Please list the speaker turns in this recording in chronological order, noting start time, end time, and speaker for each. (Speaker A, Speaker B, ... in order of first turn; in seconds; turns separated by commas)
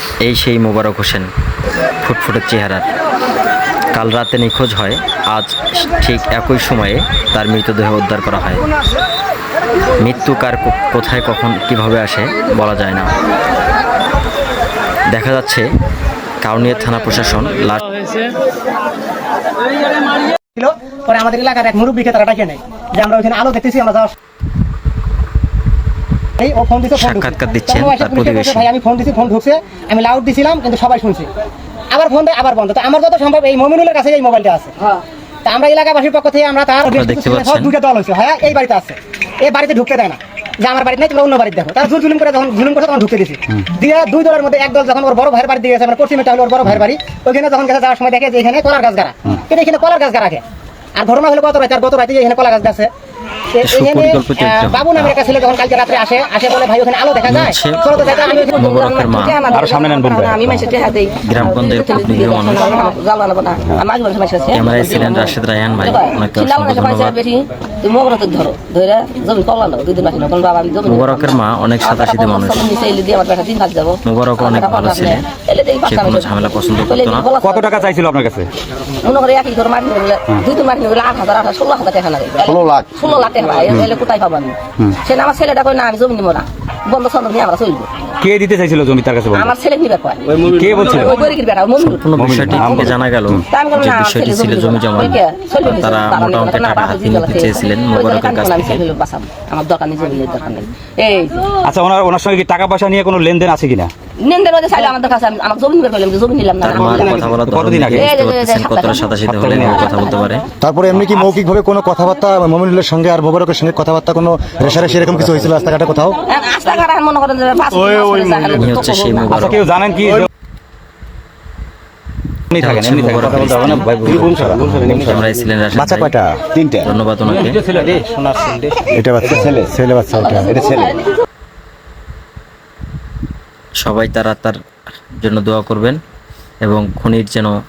Speaker A: 0.2-1.3, Speaker A: 2.0-2.8, Speaker A: 3.9-8.6, Speaker A: 10.0-13.1, Speaker A: 15.1-15.7, Speaker A: 16.4-18.3, Speaker B: 20.6-24.1, Speaker B: 26.4-31.3, Speaker A: 26.9-28.7, Speaker B: 31.9-34.7, Speaker B: 35.5-50.4, Speaker A: 36.9-37.7, Speaker B: 51.0-52.9, Speaker B: 53.5-58.6, Speaker A: 53.6-55.2, Speaker A: 57.3-59.4, Speaker C: 58.2-65.3, Speaker D: 59.5-60.6, Speaker A: 61.2-62.7, Speaker A: 64.5-67.2, Speaker C: 65.8-77.9, Speaker A: 70.9-72.7, Speaker A: 74.0-75.2, Speaker A: 75.9-77.3, Speaker D: 77.4-78.5, Speaker C: 79.0-87.9, Speaker D: 88.2-89.5, Speaker C: 89.3-92.0, Speaker D: 90.4-91.2, Speaker A: 91.8-98.8, Speaker D: 92.2-93.4, Speaker C: 92.6-92.9, Speaker C: 93.5-101.5, Speaker D: 101.7-103.9, Speaker C: 104.2-107.3, Speaker A: 106.6-110.5, Speaker D: 107.3-108.1, Speaker C: 107.9-109.1, Speaker D: 109.2-109.8, Speaker E: 110.6-116.2, Speaker C: 116.3-119.5, Speaker A: 118.6-119.6, Speaker D: 119.3-120.3, Speaker D: 122.5-125.2, Speaker A: 122.5-126.1, Speaker E: 125.9-126.5, Speaker A: 126.8-127.6, Speaker D: 127.3-128.6, Speaker E: 128.9-130.7, Speaker C: 130.1-131.2, Speaker A: 133.8-134.6, Speaker A: 135.2-136.0, Speaker A: 136.6-137.6